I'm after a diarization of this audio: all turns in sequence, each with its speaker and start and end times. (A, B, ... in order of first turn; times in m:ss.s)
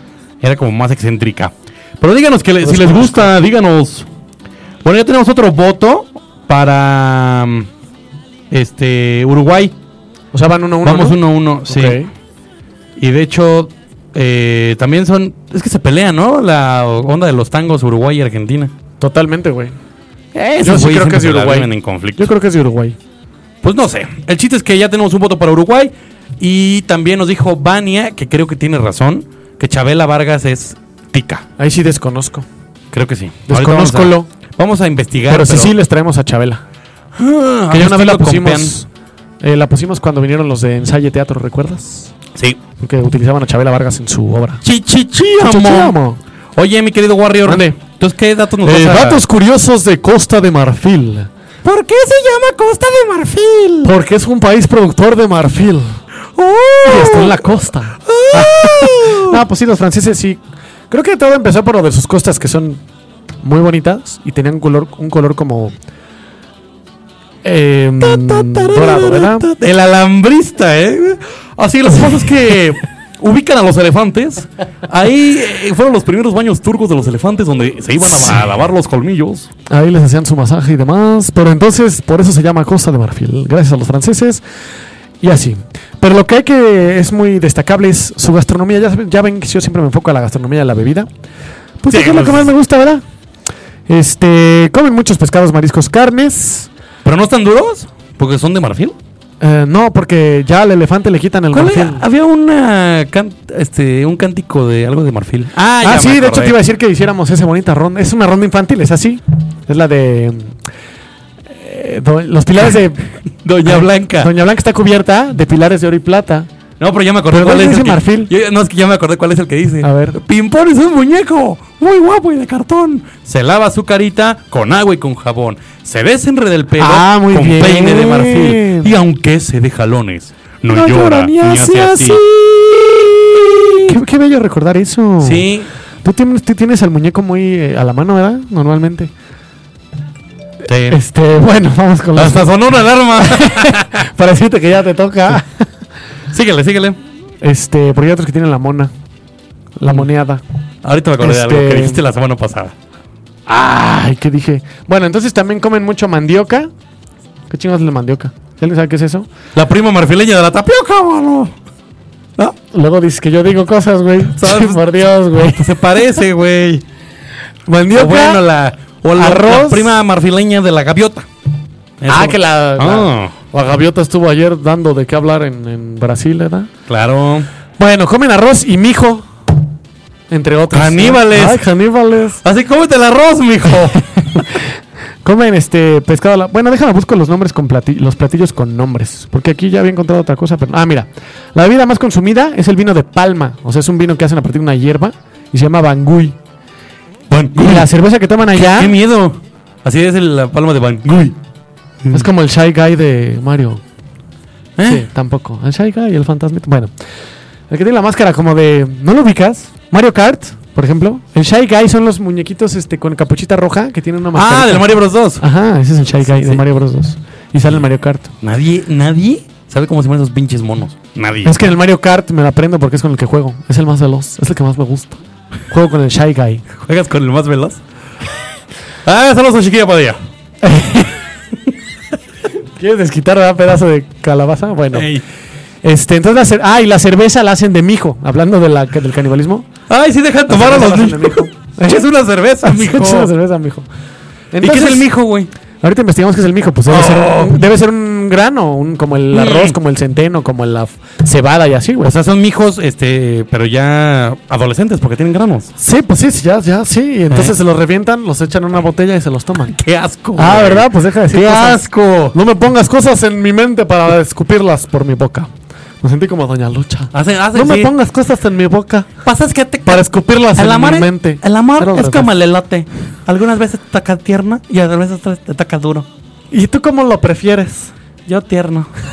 0:00.4-0:04.1 A
0:02.6-0:03.3 B
0:04.8-0:07.7 A
0:08.5-0:09.7 A
0:10.3-0:12.1 B
0:10.8-0:12.0 A
0:13.0-0:18.7 A
0:19.0-0:19.8 B
0:20.3-0:22.3 A
0:20.6-0:23.0 B
0:23.6-0:31.4 A
0:31.6-0:32.5 B
0:32.9-0:35.8 A
0:33.5-0:34.3 B
0:35.3-0:36.6 B
0:37.2-0:38.8 A
0:37.7-0:38.9 B
0:39.4-0:42.1 B
0:42.8-0:44.6 B
0:44.6-0:46.0 A
0:45.4-0:46.2 B
0:46.6-0:49.2 A
0:47.4-0:47.8 B
0:48.6-0:51.3 B
0:51.6-0:53.9 A
0:53.8-0:56.0 B
0:56.4-0:57.5 A
0:56.8-1:00.4 B
0:58.1-0:59.4 A
1:00.9-1:02.8 B
1:03.4-1:05.7 B
1:07.4-1:09.5 B
1:08.0-1:19.5 A
1:18.1-1:18.4 B
1:19.7-1:24.4 B
1:25.2-1:31.1 B
1:31.8-1:33.0 B
1:31.9-1:32.5 A
1:33.9-1:36.7 B
1:37.0-1:39.0 A
1:39.4-1:42.0 B
1:41.5-1:46.6 A
1:45.8-1:50.6 B
1:51.5-1:56.5 B
1:53.4-1:54.3 A
1:56.8-2:12.2 A
1:57.3-1:58.3 B
1:59.8-2:00.2 B
2:06.8-2:08.9 B
2:10.7-2:13.0 B
2:13.8-2:15.5 B
2:15.2-2:15.7 A
2:16.0-2:19.1 B
2:20.7-2:21.0 A
2:20.9-2:22.5 B
2:22.2-2:24.0 A
2:23.2-2:25.7 B
2:26.3-2:27.0 A
2:27.4-2:28.9 B
2:29.8-2:30.4 B
2:30.8-2:32.7 A
2:31.2-2:32.0 B
2:33.5-2:36.7 B
2:37.5-2:39.3 B
2:39.6-2:41.5 A
2:42.7-2:45.6 B
2:44.4-2:46.8 A
2:47.7-2:48.4 B
2:47.9-2:51.3 A
2:49.2-2:49.9 B
2:52.0-2:53.3 A
2:52.1-2:56.7 B
2:56.9-2:57.5 A
2:57.8-2:59.3 B
3:00.3-3:02.4 B
3:00.7-3:01.6 A
3:02.4-3:04.4 A
3:05.2-3:16.4 B
3:17.3-3:17.9 A
3:17.6-3:18.9 B
3:18.5-3:21.4 A
3:22.0-3:22.3 A
3:22.1-3:23.8 B
3:24.8-3:25.1 A
3:24.9-3:26.9 B
3:27.7-3:38.3 B
3:34.4-3:35.4 A
3:36.2-3:36.6 A
3:38.4-3:41.6 A
3:41.4-3:46.6 B
3:46.8-3:47.8 A
3:49.0-3:50.2 A
3:50.6-3:51.1 B
3:52.8-3:55.1 B
3:54.9-3:55.2 A
3:55.8-3:59.7 B
3:59.9-4:03.3 A
4:00.5-4:02.0 B
4:02.6-4:03.9 B
4:04.5-4:05.1 B
4:04.6-4:05.5 A
4:05.8-4:12.1 B
4:06.9-4:07.6 A
4:09.3-4:09.8 A
4:12.0-4:15.7 A
4:15.8-4:19.8 B
4:19.7-4:22.4 A
4:20.4-4:21.8 B
4:22.3-4:25.5 B
4:26.0-4:29.1 B
4:27.1-4:27.9 A
4:29.2-4:36.1 A
4:29.8-4:32.3 B
4:36.5-4:37.9 B
4:38.3-4:38.9 A